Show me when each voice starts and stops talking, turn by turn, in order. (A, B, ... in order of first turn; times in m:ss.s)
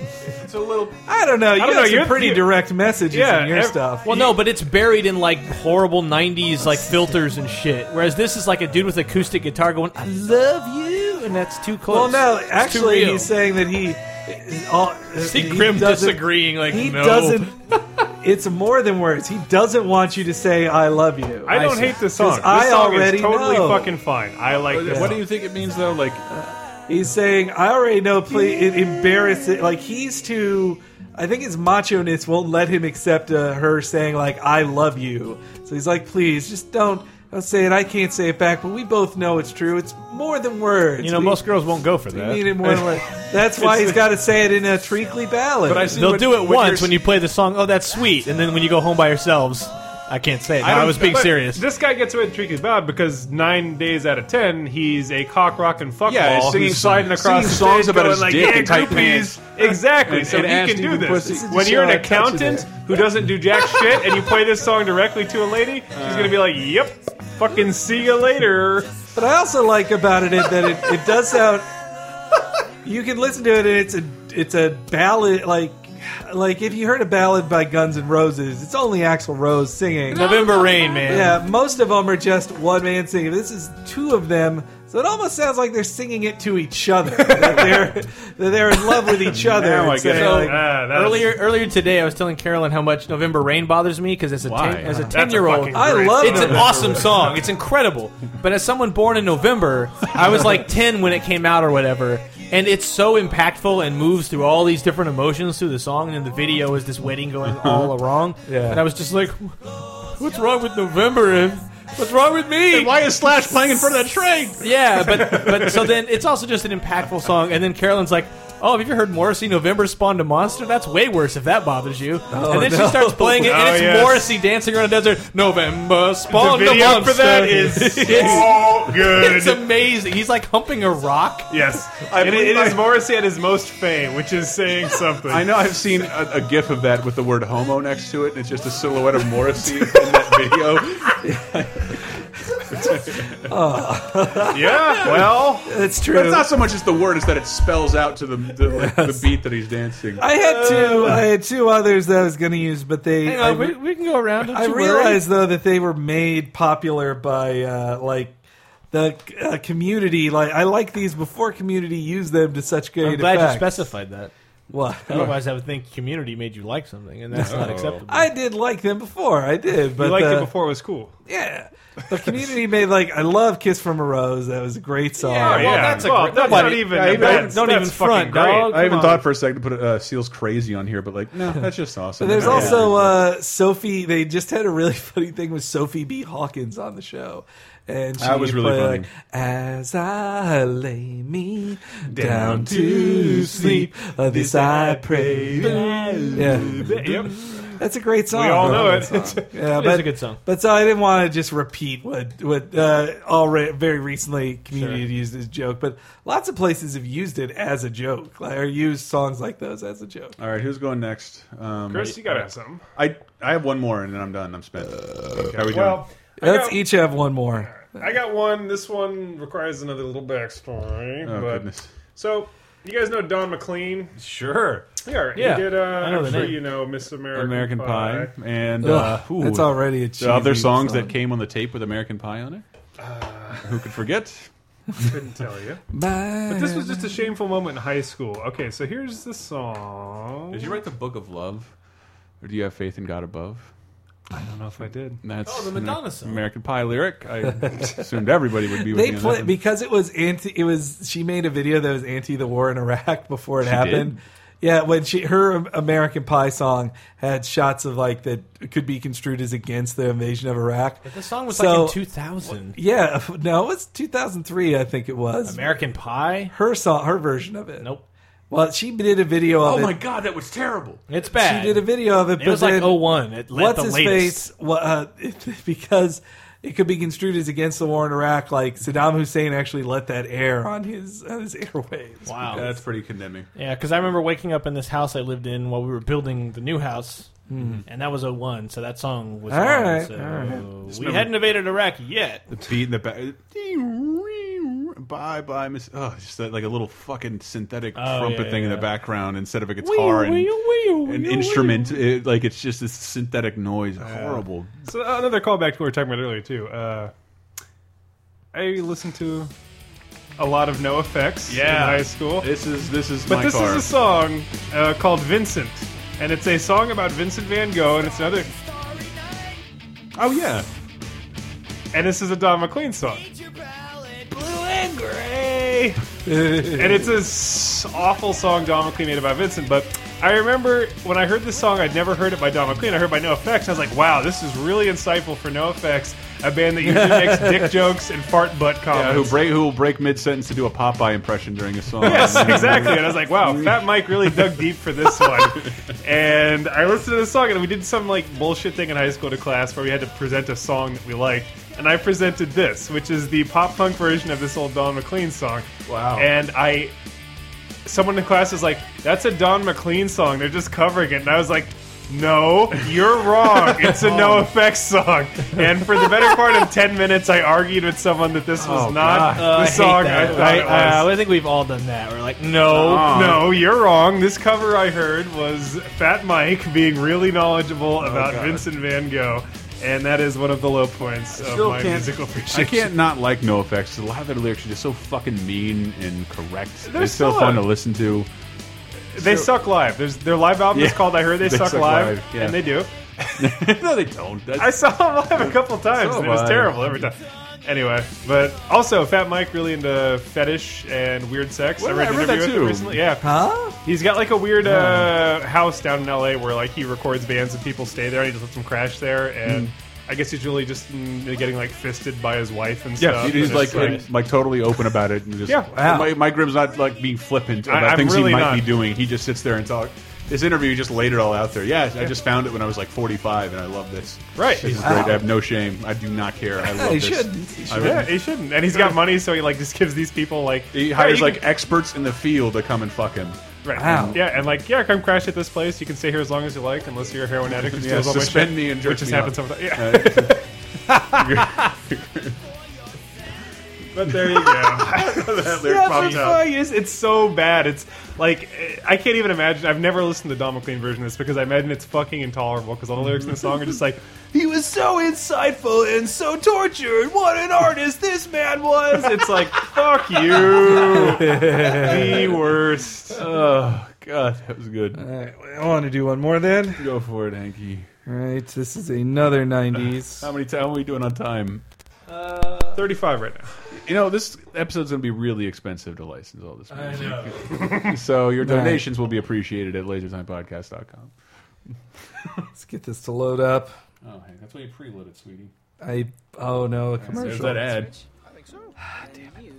0:00.2-0:01.0 A
0:01.1-0:04.1 B
0:01.6-0:02.5 C
0:03.1-0:04.3 C
0:04.0-0:13.3 D
0:11.9-0:24.0 B
0:15.2-0:17.5 D
0:21.4-0:25.2 C
0:21.5-0:22.1 D
0:24.6-0:26.2 A
0:24.9-0:25.2 B
0:26.3-0:41.4 B
0:41.0-0:42.6 D
0:42.1-0:46.0 B
0:43.6-0:44.0 A
0:45.6-0:47.0 A
0:45.9-0:51.6 D
0:50.6-0:51.3 A
0:50.9-1:08.9 C
0:56.0-1:01.5 A
1:01.2-1:02.7 B
1:05.9-1:06.4 A
1:09.1-1:11.7 B
1:12.8-1:20.2 B
1:20.1-1:21.4 D
1:21.0-1:30.6 B
1:29.2-1:30.5 A
1:30.1-1:52.9 D
1:30.1-1:31.4 C
1:34.4-1:35.0 A
1:34.8-1:35.1 B
1:35.1-1:37.3 C
1:35.7-1:37.0 B
1:47.4-1:47.9 A
1:48.5-1:48.8 B
1:52.7-1:55.9 A
1:54.6-2:11.5 D
2:02.3-2:03.5 B
2:03.4-2:04.4 C
2:06.3-2:09.6 C
2:08.3-2:08.8 A
2:11.5-2:15.5 C
2:12.0-2:13.0 A
2:15.3-2:22.0 A
2:21.2-2:21.5 B
2:22.7-2:23.3 A
2:22.7-2:26.5 B
2:24.5-2:25.6 C
2:25.0-2:31.2 A
2:28.6-2:29.3 B
2:30.2-2:33.8 B
2:30.2-2:31.2 D
2:33.2-2:35.2 D
2:34.4-2:38.4 B
2:38.9-2:43.9 B
2:43.0-2:44.3 D
2:44.7-2:45.4 B
2:45.1-2:48.3 D
2:47.3-2:48.0 A
2:48.1-2:50.5 B
2:49.9-2:51.1 C
2:51.3-2:56.0 B
2:55.2-2:59.2 D
2:55.4-2:59.0 C
2:56.3-2:57.9 A
2:58.6-3:03.2 A
3:02.2-3:15.8 B
3:02.4-3:02.7 C
3:02.5-3:02.8 D
3:08.2-3:09.1 A
3:12.1-3:13.9 A
3:15.1-3:17.3 A
3:15.5-3:17.5 C
3:15.5-3:16.6 D
3:16.3-3:30.3 B
3:18.3-3:19.4 C
3:19.5-3:20.4 D
3:24.7-3:25.0 D
3:30.4-3:36.1 A
3:31.9-3:32.8 C
3:35.4-3:36.8 C
3:36.4-3:37.7 B
3:37.7-3:48.3 C
3:41.2-3:41.9 A
3:44.2-3:44.8 A
3:45.3-3:46.6 D
3:46.2-3:46.5 A
3:47.3-3:52.6 A
3:48.8-3:51.1 B
3:53.0-3:53.8 C
3:53.6-3:54.5 A
3:55.0-3:55.8 C
3:55.9-3:57.2 B
3:56.5-4:00.6 C
4:00.5-4:01.7 A
4:02.4-4:03.7 A
4:04.3-4:05.2 C
4:05.2-4:09.5 A
4:05.4-4:06.4 D
4:08.8-4:22.0 B
4:13.6-4:14.2 A
4:21.0-4:22.8 D
4:22.7-4:25.7 B
4:25.5-4:26.5 D
4:26.5-4:27.9 B
4:28.5-4:30.0 B
4:29.5-4:31.0 A
4:31.1-4:34.4 D
4:31.3-4:42.7 B
4:42.2-4:42.7 D
4:42.5-4:43.5 A
4:43.5-4:47.3 D
4:47.5-4:47.8 B
4:47.5-4:47.8 A
4:47.9-4:52.4 D
4:49.5-4:50.7 B
4:50.9-4:51.3 A
4:52.5-5:04.7 A
4:57.9-4:58.9 D
4:59.8-5:02.0 D
5:04.0-5:07.1 C
5:08.5-5:09.5 C
5:10.4-5:12.5 C
5:11.5-5:13.9 A
5:13.3-5:18.5 C
5:20.2-5:20.7 A
5:21.9-5:23.3 C
5:24.3-5:26.0 C
5:26.3-5:27.1 B
5:26.6-5:39.5 C
5:36.8-5:37.7 B
5:38.9-5:44.6 A
5:42.0-5:56.9 C
5:55.9-5:56.3 A
5:57.8-6:11.1 C
6:04.0-6:04.5 D
6:08.6-6:10.9 A
6:09.2-6:13.1 D
6:12.7-6:13.6 A
6:12.9-6:22.8 C
6:18.0-6:18.6 A
6:21.5-6:28.3 A
6:26.8-6:27.7 C
6:29.1-6:33.6 C
6:29.2-6:29.5 A
6:30.7-6:32.6 A
6:33.4-6:37.0 A
6:34.6-6:54.1 C
6:41.8-6:43.0 A
6:43.2-6:43.8 B
6:44.6-6:45.2 B
6:53.0-7:08.1 A
6:55.5-6:55.7 C
6:55.7-6:56.2 B
6:57.6-6:58.7 C
7:04.4-7:05.1 C
7:04.8-7:05.2 B
7:06.7-7:08.1 B
7:07.7-7:11.4 C
7:10.7-7:14.2 A
7:13.6-7:20.4 C
7:13.8-7:14.2 B
7:17.6-7:20.4 A
7:21.0-7:22.4 A
7:23.9-7:34.0 C
7:24.0-7:26.5 A
7:34.3-7:37.5 B
7:38.5-7:42.3 A
7:38.9-7:43.2 C
7:40.7-7:42.3 B
7:43.1-7:45.0 A
7:44.9-7:46.8 B
7:46.8-7:47.9 A
7:48.0-7:50.3 B
7:49.9-7:51.6 A
7:52.1-7:52.9 D
7:52.7-7:53.5 C
7:53.8-8:01.1 A
7:56.7-7:57.7 D
7:58.4-7:58.8 B
8:02.5-8:03.7 B
8:04.0-8:05.5 A
8:05.8-8:07.8 B
8:07.0-8:08.0 A